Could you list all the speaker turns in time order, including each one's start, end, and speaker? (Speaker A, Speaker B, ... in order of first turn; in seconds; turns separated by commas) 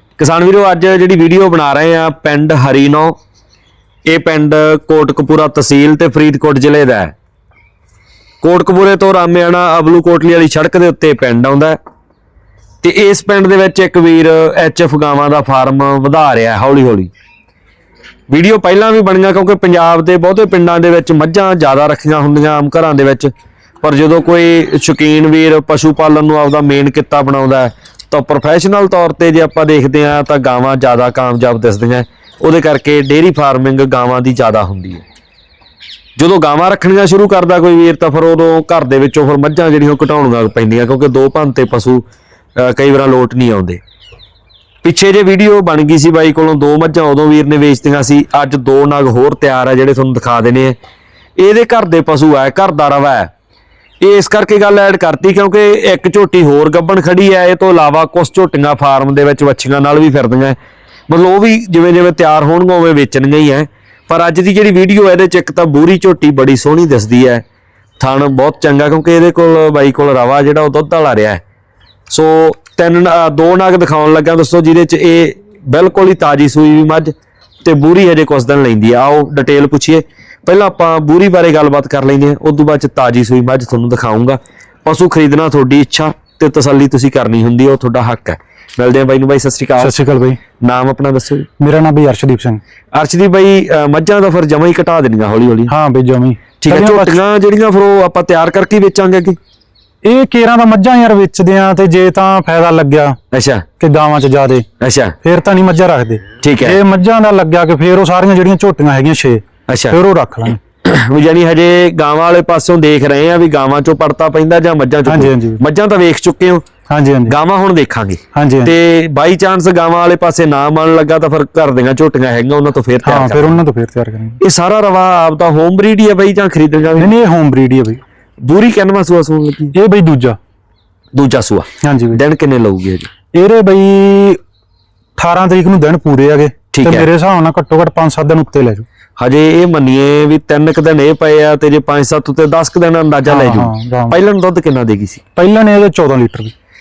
Speaker A: 0.2-3.2, Speaker A: 4.1-7.2, Speaker A: 8.4-11.8, Speaker A: 12.8-17.1, Speaker A: 18.3-35.0, Speaker A: 36.2-42.0, Speaker A: 42.6-43.8, Speaker A: 44.8-50.8, Speaker A: 51.4-53.3, Speaker A: 54.0-60.6, Speaker A: 61.1-67.4, Speaker A: 68.0-71.4, Speaker A: 72.1-77.1, Speaker A: 77.6-90.0, Speaker B: 89.8-90.4, Speaker A: 90.6-91.5, Speaker B: 91.6-92.6, Speaker A: 92.9-95.7, Speaker B: 95.7-97.2, Speaker A: 96.6-99.4, Speaker B: 100.0-103.2, Speaker A: 103.3-103.7, Speaker B: 103.8-104.7, Speaker A: 104.8-105.2, Speaker B: 105.2-110.6, Speaker A: 106.4-106.8, Speaker A: 109.7-110.0, Speaker A: 110.8-116.6, Speaker B: 115.1-115.6, Speaker B: 116.9-117.3, Speaker A: 117.3-123.6, Speaker B: 118.3-118.7, Speaker B: 123.0-124.4, Speaker A: 124.4-127.1, Speaker B: 127.0-128.0, Speaker A: 128.4-129.8, Speaker B: 129.7-130.4, Speaker A: 131.1-133.1, Speaker B: 131.8-132.2, Speaker B: 133.3-134.4, Speaker B: 135.2-138.9, Speaker A: 136.7-137.1, Speaker A: 139.2-145.2, Speaker B: 143.3-144.2, Speaker B: 145.4-146.5